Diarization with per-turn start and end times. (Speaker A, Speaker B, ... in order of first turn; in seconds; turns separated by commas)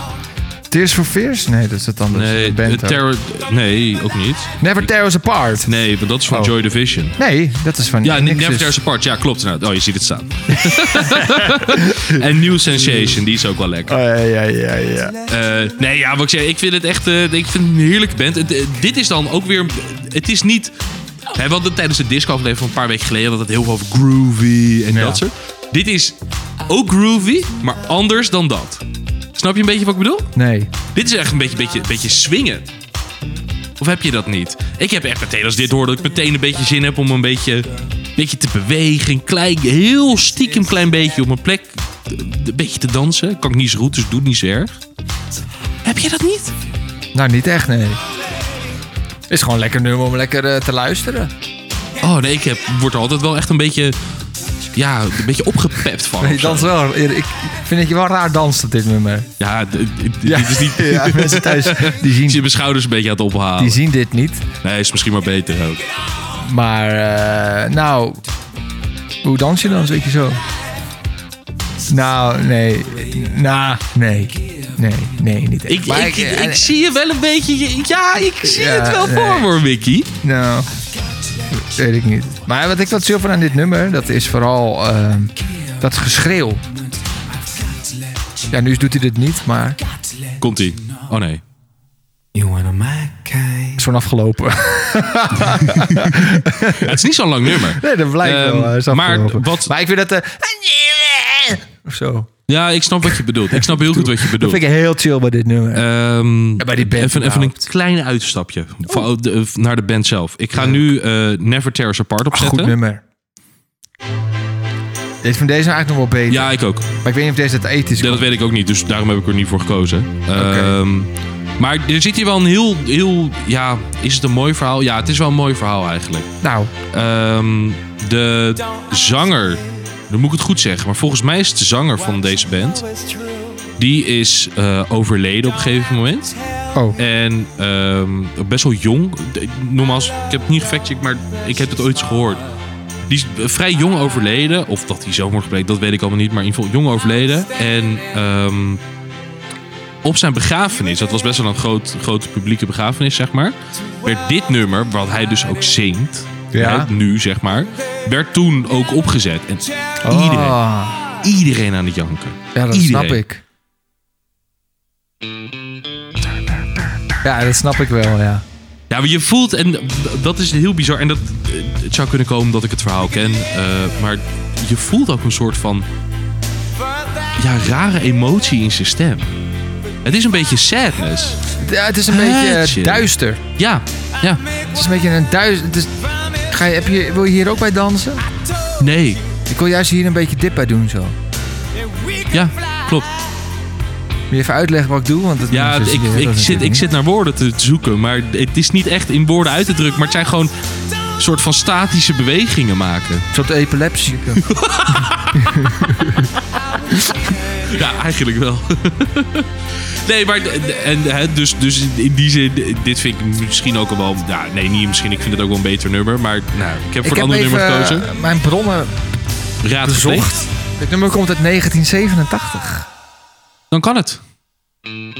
Speaker A: 0.7-3.0, Speaker B: 2.1-4.6, Speaker A: 4.6-5.7, Speaker B: 5.6-7.2, Speaker A: 7.2-8.8, Speaker B: 8.0-14.0, Speaker A: 10.5-13.2, Speaker A: 13.9-15.2, Speaker B: 15.3-20.8, Speaker B: 21.3-28.8, Speaker A: 24.9-25.2, Speaker B: 29.4-30.3, Speaker A: 30.4-30.7, Speaker B: 30.9-32.7, Speaker B: 33.8-44.8, Speaker B: 45.9-46.5, Speaker A: 47.1-48.0, Speaker A: 49.3-51.3, Speaker B: 52.0-54.0, Speaker B: 54.7-56.8, Speaker A: 56.2-59.3, Speaker B: 59.4-63.8, Speaker A: 60.2-62.5, Speaker A: 63.6-64.5, Speaker B: 64.6-65.8, Speaker A: 66.3-68.2, Speaker A: 69.2-70.4, Speaker A: 71.9-76.7, Speaker C: 74.3-74.8, Speaker B: 75.7-80.1, Speaker A: 78.4-79.5, Speaker A: 80.2-80.7, Speaker C: 81.1-81.7, Speaker A: 81.5-86.6, Speaker C: 85.4-86.0, Speaker C: 86.7-88.5, Speaker A: 88.5-89.8, Speaker C: 89.8-91.1, Speaker B: 90.4-91.4, Speaker C: 92.3-93.9, Speaker A: 93.8-102.3, Speaker B: 95.7-99.7, Speaker B: 102.5-104.6, Speaker A: 103.5-105.9, Speaker B: 105.7-112.8, Speaker A: 106.6-107.6, Speaker A: 110.5-110.9, Speaker A: 112.3-113.0, Speaker A: 115.2-118.3, Speaker B: 116.3-116.9, Speaker B: 118.0-126.3, Speaker A: 120.3-120.8, Speaker A: 126.4-126.7, Speaker B: 126.9-132.8, Speaker B: 133.8-136.4, Speaker A: 136.7-137.0, Speaker B: 137.0-142.4, Speaker B: 143.1-148.8, Speaker B: 150.0-160.6, Speaker A: 156.5-156.9, Speaker A: 160.0-161.0, Speaker B: 161.2-163.2, Speaker A: 162.5-163.4, Speaker A: 167.2-168.4, Speaker B: 168.9-175.9, Speaker B: 177.4-179.3, Speaker B: 180.0-181.4, Speaker A: 181.6-183.4, Speaker B: 182.1-184.4, Speaker A: 184.7-188.3, Speaker B: 188.8-189.2, Speaker A: 189.5-191.2, Speaker B: 192.3-193.1, Speaker A: 194.3-196.9, Speaker B: 195.5-200.5, Speaker B: 201.2-203.3, Speaker A: 203.3-204.5, Speaker B: 204.4-206.3, Speaker A: 205.3-206.3, Speaker B: 207.6-218.1, Speaker A: 217.0-219.0, Speaker B: 219.6-220.3, Speaker A: 219.8-222.9, Speaker B: 223.7-224.2